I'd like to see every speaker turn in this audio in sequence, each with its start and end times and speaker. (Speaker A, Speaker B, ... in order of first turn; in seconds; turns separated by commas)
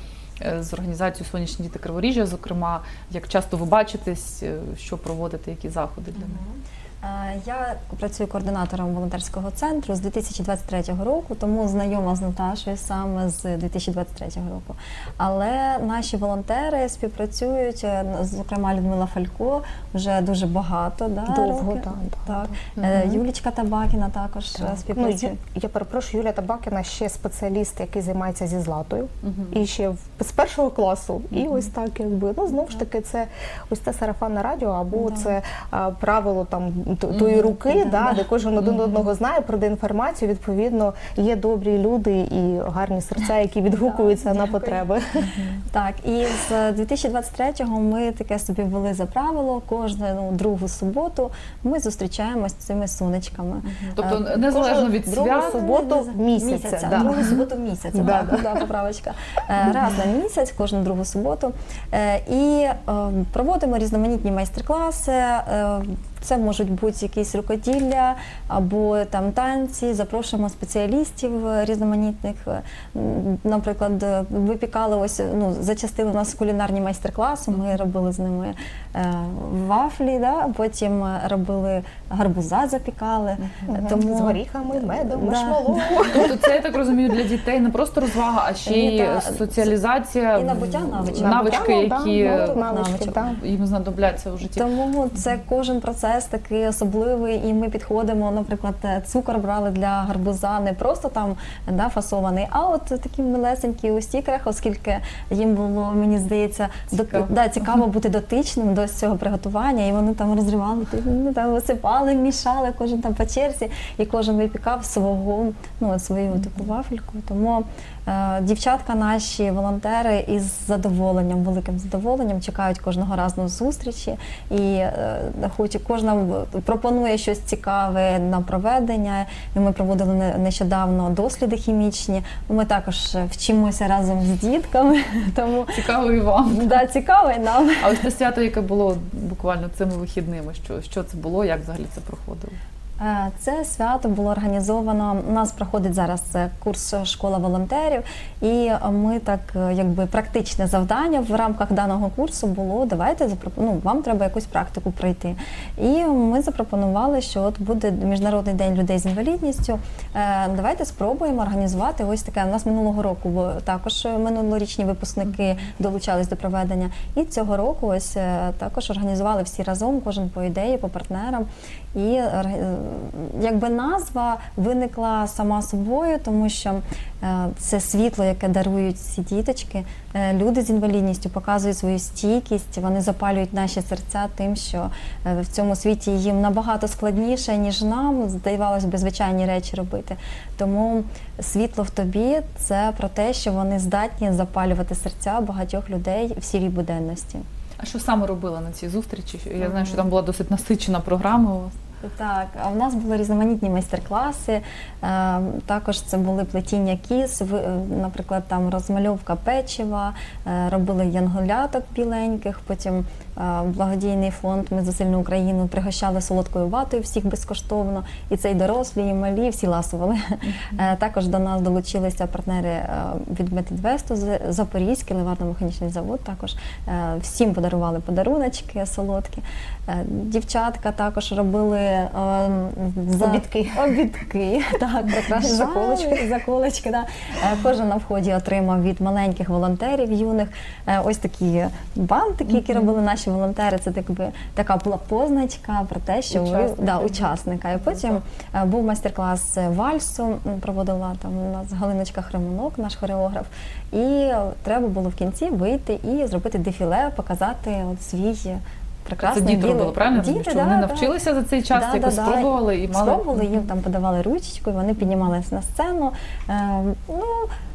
Speaker A: 0.4-6.4, Speaker B: 6.2-25.4, Speaker C: 21.3-23.1, Speaker C: 24.6-45.4, Speaker A: 29.2-29.6, Speaker B: 35.0-35.4, Speaker A: 37.1-38.0, Speaker A: 38.6-39.1, Speaker B: 43.8-44.8, Speaker B: 45.7-53.7, Speaker A: 53.7-55.6, Speaker C: 54.0-58.5, Speaker B: 55.2-86.3, Speaker A: 83.4-83.7, Speaker C: 83.7-86.3, Speaker A: 86.2-94.7, Speaker B: 88.7-89.5, Speaker B: 90.3-93.2, Speaker C: 91.1-93.4, Speaker B: 94.4-135.7, Speaker A: 116.3-116.6, Speaker A: 135.7-136.8, Speaker B: 136.4-138.0, Speaker A: 137.8-142.6, Speaker B: 143.0-197.5, Speaker A: 197.8-201.8, Speaker B: 199.7-200.0, Speaker B: 202.0-261.1, Speaker A: 220.5-220.8, Speaker C: 233.2-234.1, Speaker C: 235.1-236.3, Speaker C: 246.3-248.2, Speaker A: 259.2-263.6, Speaker B: 261.7-267.5